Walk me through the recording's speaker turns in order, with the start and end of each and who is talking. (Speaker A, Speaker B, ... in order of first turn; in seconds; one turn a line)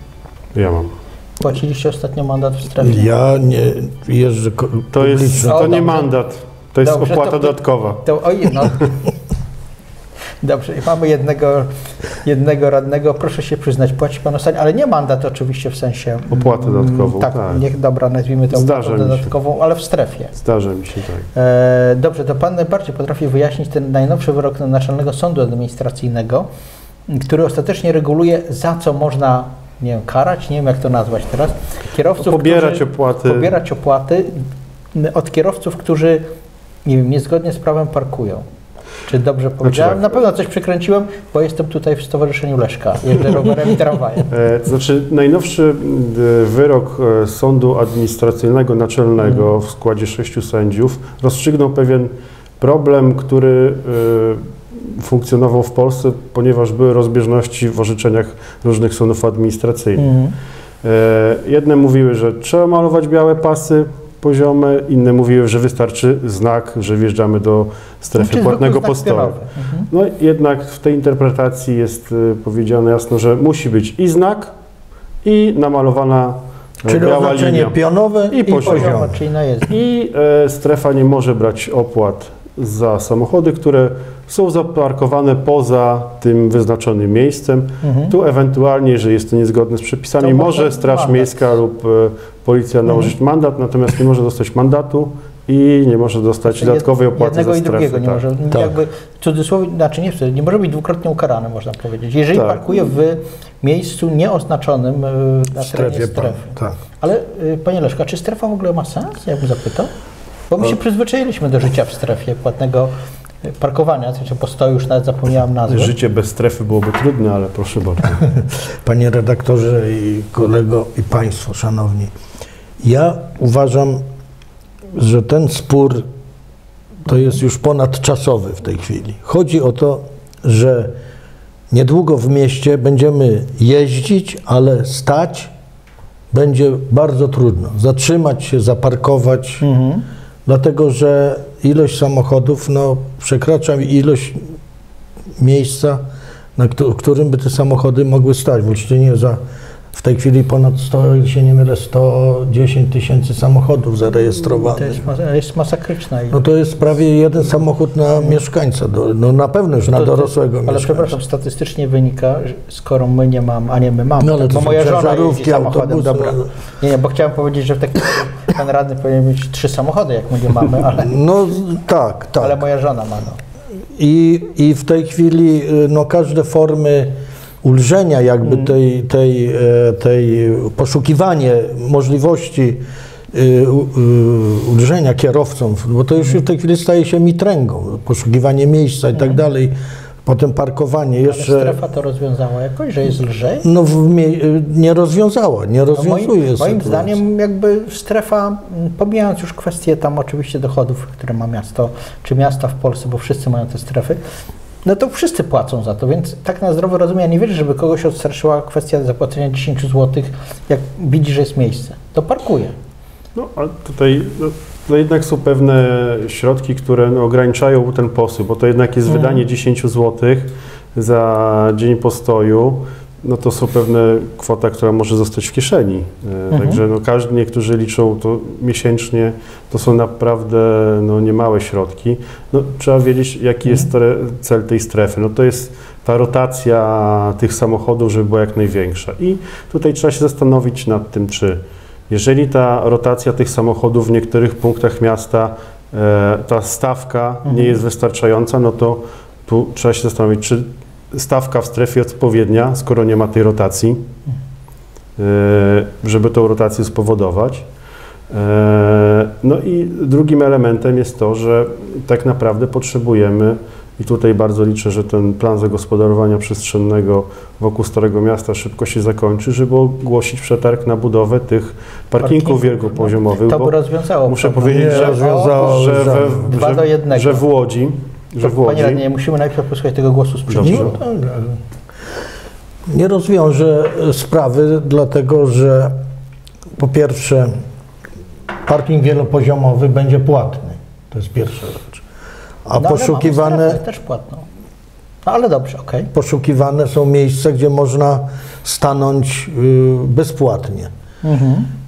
Speaker A: 0.5-0.9
Speaker B: 1.4-3.1
Speaker C: 2.8-5.8
Speaker A: 4.9-8.0
Speaker B: 5.4-6.1
Speaker B: 6.8-8.9
Speaker B: 10.4-20.3
Speaker A: 16.3-17.6
Speaker A: 18.5-19.3
Speaker A: 20.4-21.3
Speaker B: 21.3-26.5
Speaker B: 27.1-34.4
Speaker A: 32.2-33.5
Speaker B: 34.9-36.2
Speaker B: 36.8-38.4
Speaker B: 39.0-44.3
Speaker A: 39.6-40.1
Speaker A: 44.3-60.0
Speaker B: 60.0-60.3
Speaker A: 60.8-69.4
Speaker B: 68.1-69.9
Speaker A: 69.9-74.5
Speaker A: 75.2-77.8
Speaker C: 76.9-79.2
Speaker A: 78.3-79.0
Speaker B: 78.6-79.7
Speaker A: 79.7-98.2
Speaker B: 87.8-88.1
Speaker B: 90.2-91.3
Speaker B: 92.9-93.1
Speaker B: 96.5-109.9
Speaker A: 102.3-102.7
Speaker C: 105.5-106.8
Speaker B: 110.5-112.9
Speaker B: 113.4-115.9
Speaker A: 115.7-118.2
Speaker C: 118.2-122.1
Speaker C: 122.8-124.0
Speaker C: 124.9-126.0
Speaker C: 127.0-130.9
Speaker C: 131.7-135.5
Speaker C: 136.3-139.6
Speaker B: 139.6-140.0
Speaker C: 140.4-144.4
Speaker C: 145.4-146.0
Speaker C: 146.6-149.4
Speaker C: 149.9-155.0
Speaker B: 154.4-156.4
Speaker C: 156.3-161.1
Speaker B: 159.9-171.2
Speaker C: 164.2-166.5
Speaker C: 171.0-172.6
Speaker B: 172.4-173.4
Speaker C: 173.9-189.7
Speaker B: 178.4-178.7
Speaker C: 190.2-191.8
Speaker B: 191.3-193.6
Speaker C: 193.6-197.2
Speaker B: 195.9-204.2
Speaker B: 204.8-212.7
Speaker A: 213.3-254.0
Speaker B: 219.1-219.4
Speaker B: 226.5-226.8
Speaker B: 247.4-247.8
Speaker A: 255.2-257.6
Speaker A: 258.3-279.0
Speaker B: 272.2-275.8
Speaker C: 274.7-276.5
Speaker B: 276.3-277.4
Speaker B: 278.4-281.0
Speaker A: 280.5-280.9
Speaker C: 280.6-281.6
Speaker C: 282.9-285.9
Speaker C: 286.8-287.5
Speaker C: 288.6-292.0
Speaker C: 292.6-293.8
Speaker B: 292.8-294.4
Speaker B: 295.2-296.1
Speaker C: 296.1-300.9
Speaker B: 301.2-301.7